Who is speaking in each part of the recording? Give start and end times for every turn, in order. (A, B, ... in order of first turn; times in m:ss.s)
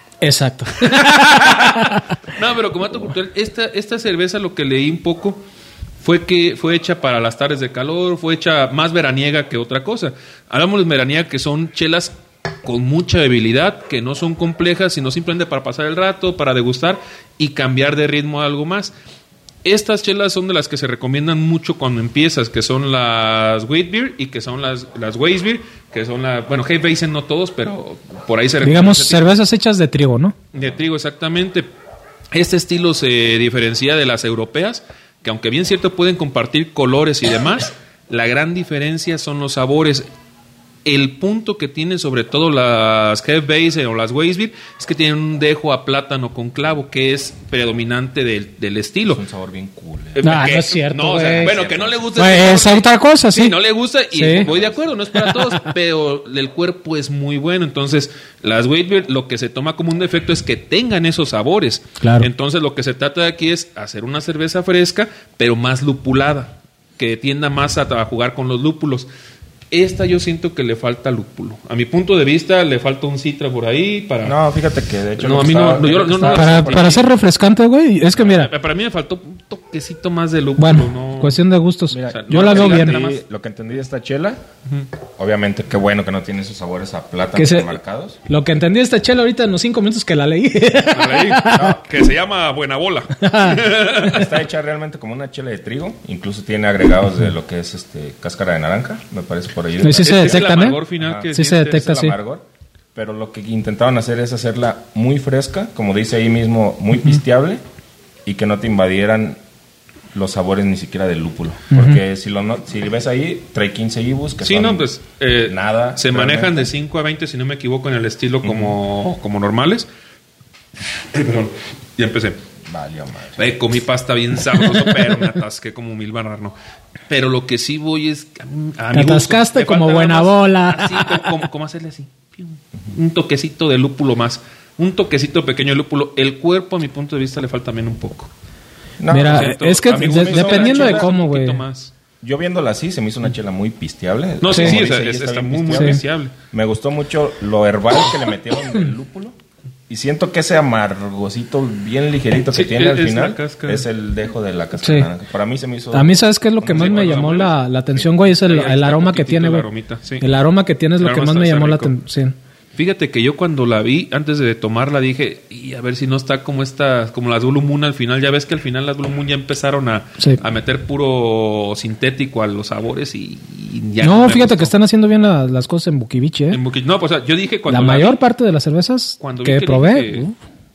0:00.2-0:02.0 A
0:00.8-0:05.4 B
0:06.0-0:18.9 B
0:19.6-0:29.2 B
0:28.6-0:30.4 A
0:30.5-0:31.7 B
0:32.3-0:40.0 B
0:40.8-0:49.2 B
0:49.1-0:50.3 C
0:50.1-1:09.1 B
0:50.2-0:51.6 A
0:51.1-0:52.1 C
0:52.2-0:53.6 A
0:54.1-0:54.5 A
0:54.4-0:54.9 C
0:55.1-0:55.7 A
1:02.0-1:02.3 A
1:09.7-1:14.4 B
1:14.2-1:17.0 C
1:15.2-1:17.1 B
1:16.3-1:18.5 A
1:18.2-1:21.4 B
1:20.6-1:23.0 A
1:21.9-1:24.4 C
1:22.1-1:23.2 B
1:25.2-1:28.2 C
1:27.3-1:31.8 A
1:30.9-1:34.3 B
1:31.5-1:31.8 C
1:33.2-1:34.3 A
1:34.0-1:40.4 C
1:39.8-1:40.8 A
1:40.0-1:41.8 B
1:41.0-1:42.4 C
1:41.3-1:42.2 A
1:43.0-1:47.6 C
1:48.3-1:49.4 C
1:50.1-1:54.9 C
1:51.7-1:52.0 A
1:54.4-1:59.9 B
1:55.4-1:56.7 C
1:58.4-1:58.8 C
2:01.1-2:02.4 B
2:02.7-2:03.8 C
2:03.4-2:06.6 B
2:07.1-2:18.3 B
2:08.9-2:11.3 A
2:19.0-2:21.1 C
2:19.1-2:21.6 A
2:19.2-2:21.9 B
2:22.2-2:29.4 C
2:24.4-2:26.3 B
2:24.5-2:24.8 A
2:25.7-2:26.0 A
2:29.9-2:36.9 C
2:32.5-2:33.9 B
2:34.8-2:35.1 A
2:35.9-2:39.7 A
2:36.6-2:37.6 B
2:38.3-2:40.2 B
2:40.2-2:42.4 A
2:41.0-2:41.9 B
2:42.8-2:54.7 B
2:54.0-2:56.6 A
2:56.5-2:58.2 B
2:57.7-3:00.4 A
2:59.2-3:00.2 B